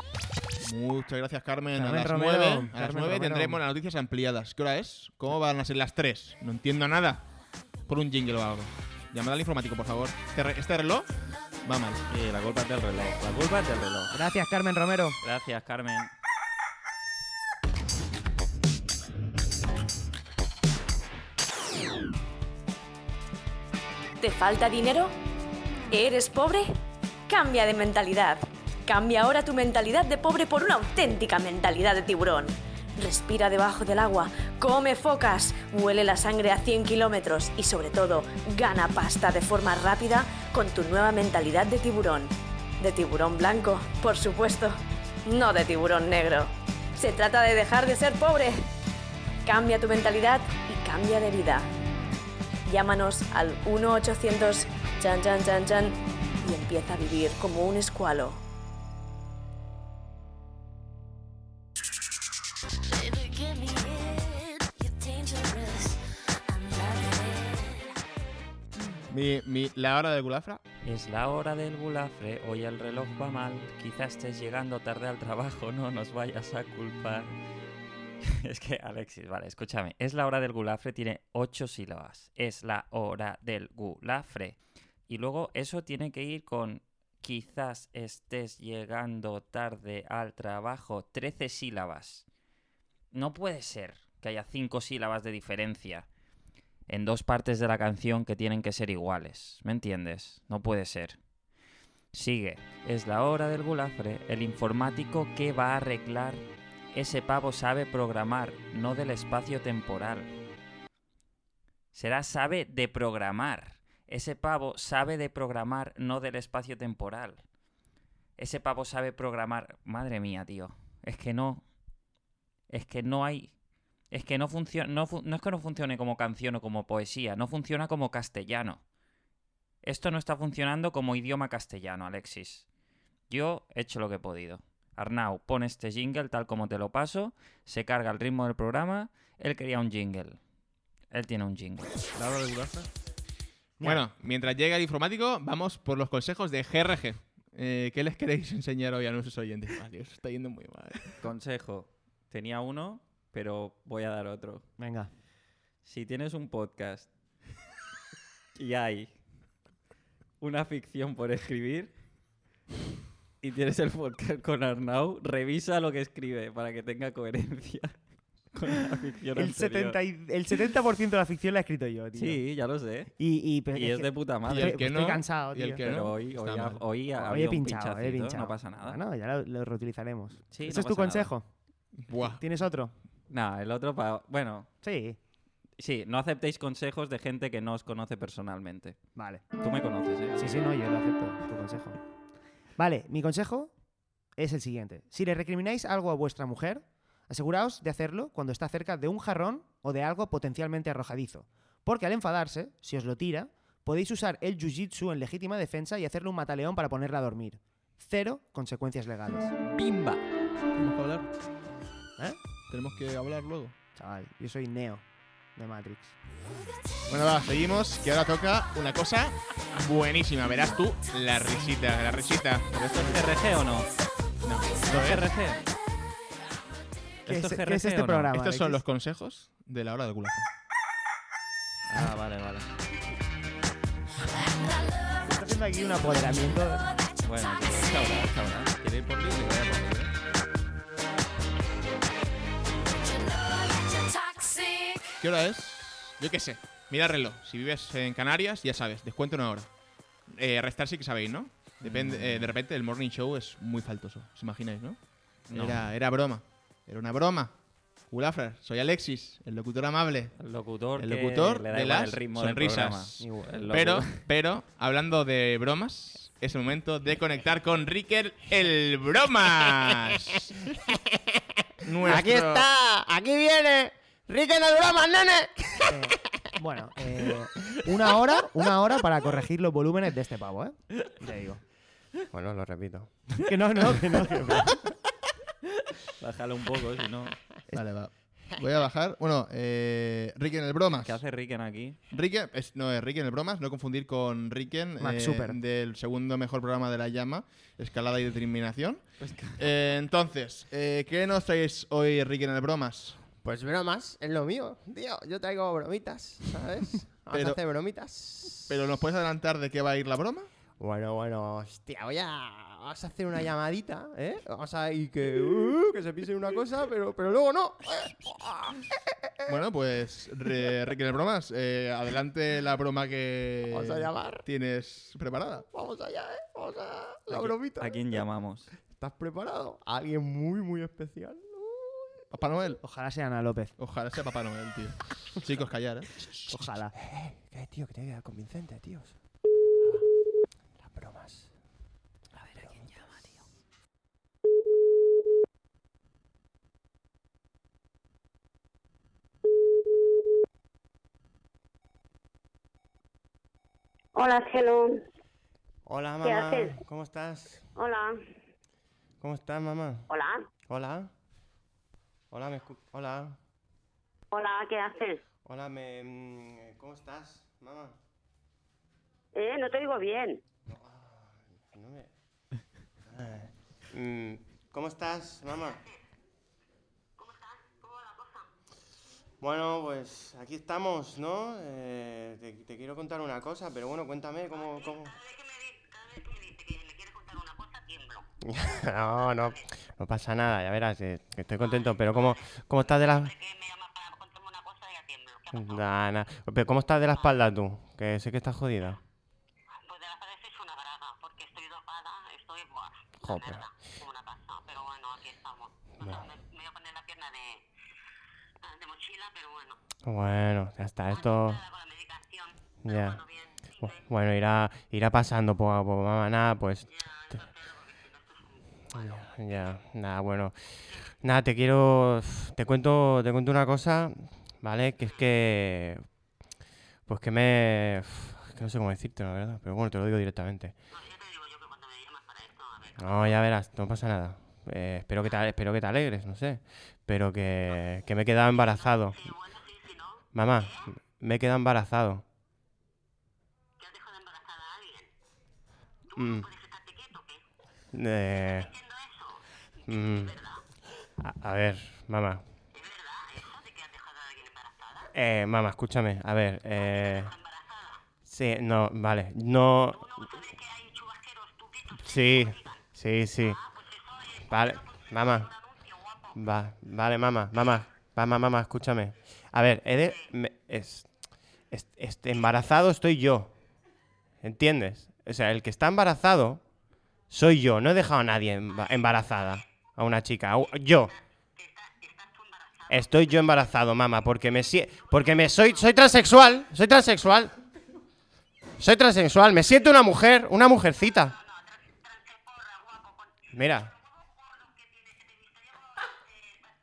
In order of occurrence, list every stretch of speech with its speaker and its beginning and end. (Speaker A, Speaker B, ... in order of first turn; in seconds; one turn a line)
Speaker A: 0.6-7.2
Speaker B: 1.7-3.6
Speaker A: 7.9-11.1
Speaker A: 11.6-12.0
Speaker C: 12.1-14.2
Speaker B: 14.1-15.2
Speaker C: 15.2-16.1
Speaker D: 24.2-25.1
Speaker D: 25.9-26.7
Speaker D: 27.3-48.7
Speaker D: 49.5-51.7
Speaker D: 52.6-58.4
Speaker E: 63.0-66.0
Speaker E: 66.5-67.8
Speaker A: 69.1-70.6
Speaker C: 70.8-77.3
Speaker C: 78.2-84.6
Speaker C: 85.1-92.2
Speaker C: 93.1-96.0
Speaker C: 96.9-101.2
Speaker C: 102.1-106.4
Speaker C: 106.9-110.3
Speaker C: 111.9-117.4
Speaker C: 118.4-121.6
Speaker C: 122.7-123.5
Speaker C: 124.1-128.8
Speaker C: 129.8-132.6
Speaker C: 133.3-140.4
Speaker C: 141.1-142.0
Speaker B: 143.8-144.0
Speaker A: 143.8-151.2
Speaker C: 151.2-154.6
Speaker B: 154.8-155.1
Speaker C: 155.8-157.1
Speaker C: 158.6-159.1
Speaker C: 160.4-161.9
Speaker C: 163.4-167.9
Speaker C: 168.5-170.0
Speaker B: 169.3-172.4
Speaker C: 172.1-173.1
Speaker B: 173.2-175.8
Speaker C: 173.7-174.8
Speaker A: 174.5-176.8
Speaker C: 175.8-179.0
Speaker B: 177.1-181.5
Speaker C: 180.5-181.3
Speaker A: 181.9-182.4
Speaker B: 182.3-182.9
Speaker C: 183.3-184.7
Speaker B: 184.8-185.2
Speaker C: 185.8-188.9
Speaker B: 189.2-189.4
Speaker C: 189.6-190.5
Speaker B: 190.4-192.0
Speaker B: 192.8-193.7
Speaker B: 194.4-209.5
Speaker A: 209.6-210.2
Speaker A: 210.7-211.3
Speaker A: 212.7-213.8
Speaker B: 213.9-215.0
Speaker B: 215.6-216.2
Speaker A: 217.1-222.9
Speaker C: 222.7-223.9
Speaker A: 224.4-225.3
Speaker C: 224.9-225.6
Speaker C: 227.2-228.3
Speaker B: 227.2-228.8
Speaker A: 228.3-230.5
Speaker C: 231.9-232.7
Speaker B: 235.2-237.0
Speaker C: 237.2-240.1
Speaker A: 245.2-249.7
Speaker A: 250.3-257.5
Speaker C: 251.8-252.5
Speaker C: 255.5-255.8
Speaker A: 258.1-260.3
Speaker C: 260.4-264.2
Speaker A: 261.0-270.6
Speaker B: 263.2-263.6
Speaker A: 271.8-272.7
Speaker F: 272.0-275.9
Speaker B: 275.9-281.6
Speaker F: 282.3-283.1
Speaker B: 283.4-284.8
Speaker C: 286.2-287.3
Speaker A: 287.7-291.2
Speaker C: 291.0-292.0
Speaker A: 292.1-299.0
Speaker B: 295.0-295.6
Speaker C: 299.2-299.6
Speaker A: 299.6-303.2
Speaker F: 303.4-308.6
Speaker A: 307.3-307.6
Speaker A: 308.6-310.5
Speaker F: 310.8-318.8
Speaker A: 319.5-325.7
Speaker F: 323.7-324.4
Speaker F: 325.7-328.0
Speaker C: 327.3-328.7
Speaker F: 328.9-332.2
Speaker A: 332.3-332.8
Speaker B: 332.8-333.7
Speaker A: 333.8-336.7
Speaker B: 336.5-336.9
Speaker F: 336.9-339.1
Speaker F: 340.8-341.5
Speaker C: 342.4-343.3
Speaker G: 354.1-355.0
Speaker F: 355.9-357.7
Speaker G: 356.2-356.8
Speaker G: 357.8-358.2
Speaker F: 359.2-360.0
Speaker G: 360.1-360.5
Speaker F: 360.7-361.1
Speaker F: 362.3-363.4
Speaker G: 364.3-365.2
Speaker F: 365.4-367.9
Speaker G: 369.3-370.4
Speaker F: 370.7-372.1
Speaker F: 373.1-375.9
Speaker F: 379.4-385.2
Speaker F: 388.4-393.4
Speaker F: 395.5-399.0
Speaker F: 403.2-403.7
Speaker F: 406.0-406.3
Speaker F: 410.1-411.6
Speaker F: 412.8-413.2
Speaker F: 413.8-417.4
Speaker F: 418.9-426.0
Speaker F: 427.1-430.7
Speaker F: 433.0-439.3
Speaker F: 440.3-442.2
Speaker F: 446.1-446.5
Speaker F: 447.9-448.7
Speaker F: 449.9-450.4
Speaker F: 451.2-452.4
Speaker F: 455.1-457.4
Speaker F: 458.2-460.3
Speaker F: 462.0-463.6
Speaker F: 464.4-465.5
Speaker F: 466.3-471.2
Speaker F: 471.7-473.5
Speaker F: 474.4-476.6
Speaker F: 477.3-481.1
Speaker F: 482.9-487.5
Speaker F: 488.8-491.4
Speaker F: 493.5-493.9